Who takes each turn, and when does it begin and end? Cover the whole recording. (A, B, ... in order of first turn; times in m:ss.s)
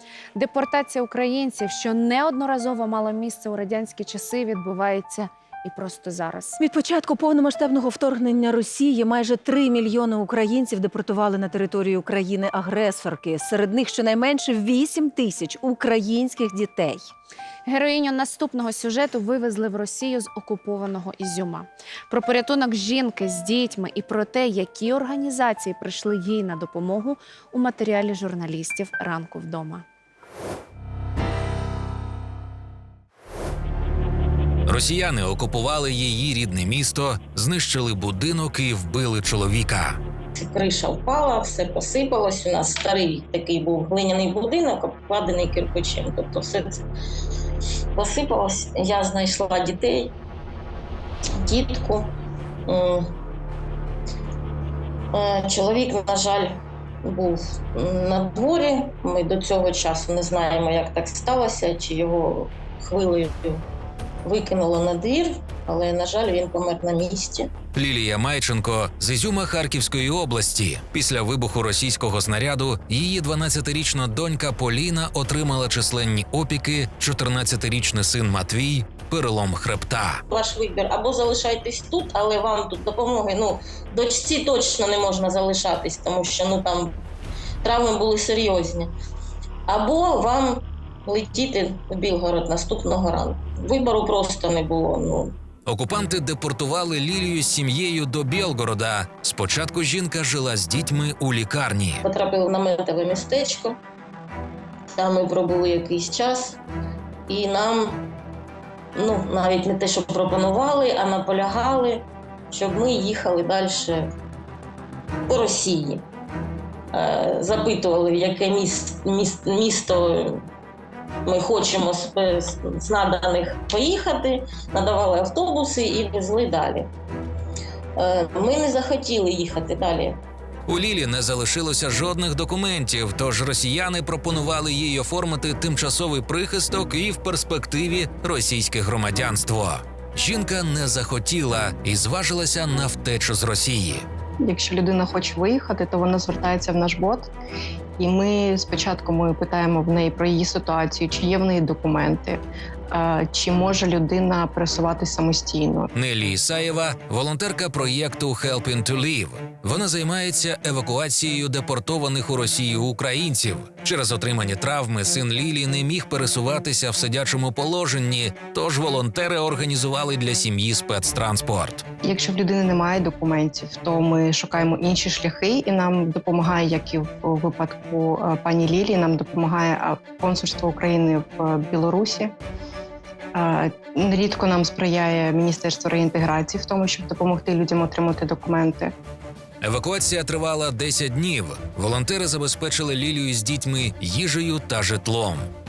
0:00.4-0:06.6 A
0:06.6-0:17.1 B
0:17.7-0:29.8 A
0:34.7-0:40.0 C
0:40.4-0:46.8 D
0:48.0-0:50.1 D
0:51.4-0:52.1 D
0:52.7-0:53.1 D
0:55.1-1:03.6 D
1:04.2-1:07.5 D
1:07.7-1:20.2 C
1:20.3-1:26.9 D
1:27.6-1:28.9 D
1:29.7-1:35.4 D
1:35.7-1:42.0 C
1:42.0-1:43.8 D
1:45.0-1:46.6 D
1:47.3-1:48.0 D
1:49.0-1:54.1 D
1:55.3-1:56.0 D
1:56.9-2:00.4 D
2:01.2-2:06.9 D
2:08.0-2:10.2 D
2:10.7-2:24.0 C
2:24.4-2:27.3 E
2:28.0-2:35.9 E
2:35.9-2:51.8 C
2:52.0-3:02.3 E
3:03.3-3:08.9 E
3:09.6-3:15.5 C